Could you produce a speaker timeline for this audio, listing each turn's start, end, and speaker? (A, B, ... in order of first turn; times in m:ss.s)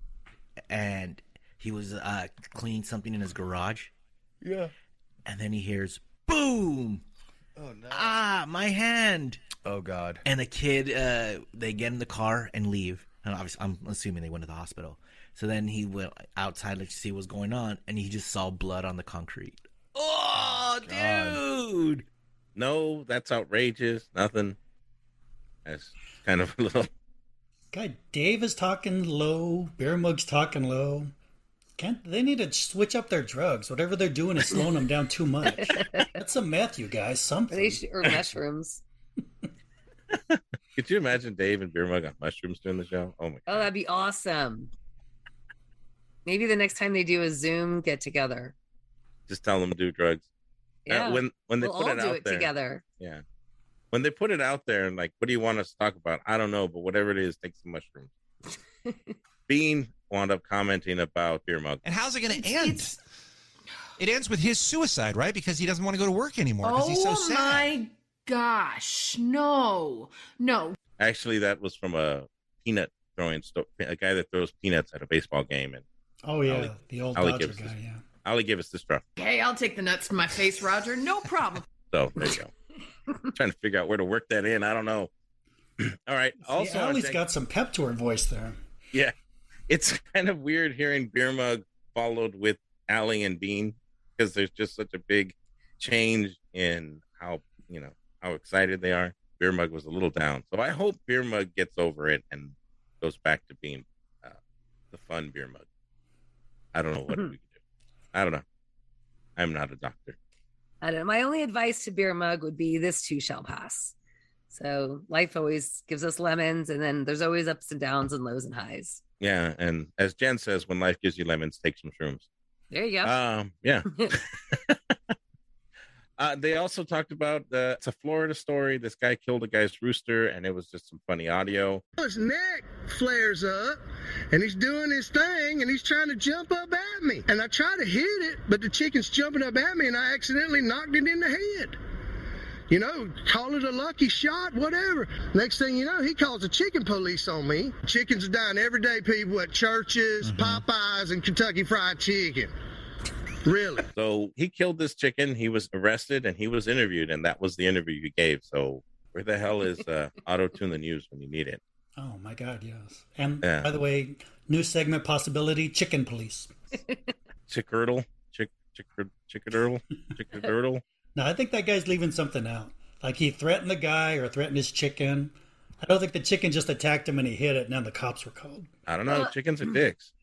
0:00.7-0:03.9 A
0:04.4-0:04.7 B
0:05.2-0:07.0 A
0:07.6-0:08.2 B
0:07.9-0:09.4 A
0:09.6-0:10.2 B
0:10.2-0:22.0 A
0:20.8-0:21.4 B
0:22.6-0:24.6 C
0:25.6-0:26.9 C
0:27.7-0:31.1 D
0:31.8-0:37.8 D
0:35.6-0:36.0 E
0:37.5-0:38.8 E
0:40.3-0:43.7 C
0:43.5-0:44.7 E
0:46.2-0:48.5 E
0:49.3-0:50.3 C
0:50.8-0:52.8 E
0:50.9-0:53.2 C
0:53.9-0:58.1 C
0:59.5-1:01.8 C
1:01.8-1:02.9 F
1:04.0-1:07.6 F
1:06.6-1:10.8 G
1:11.0-1:15.8 C
1:16.2-1:18.0 D
1:16.5-1:17.7 C
1:18.2-1:19.0 C
1:19.2-1:21.6 G
1:21.9-1:22.5 C
1:23.3-1:25.1 C
1:25.8-1:27.2 C
1:26.4-1:28.6 D
1:29.7-1:44.4 C
1:44.9-1:45.6 C
1:46.7-1:47.5 C
1:48.1-1:48.4 C
1:49.4-1:50.2 C
1:50.8-1:53.9 E
1:54.5-1:59.0 E
1:59.2-2:02.3 C
2:02.7-2:03.1 E
2:03.0-2:04.2 C
2:06.2-2:11.8 C
2:12.0-2:21.8 H
2:22.7-2:32.5 H
2:30.2-2:30.6 B
2:33.4-2:33.9 H
2:33.9-2:41.6 C
2:42.0-2:46.5 D
2:43.4-2:43.7 C
2:47.5-2:50.8 C
2:51.2-2:58.7 D
2:58.9-3:00.1 C
2:59.1-2:59.8 E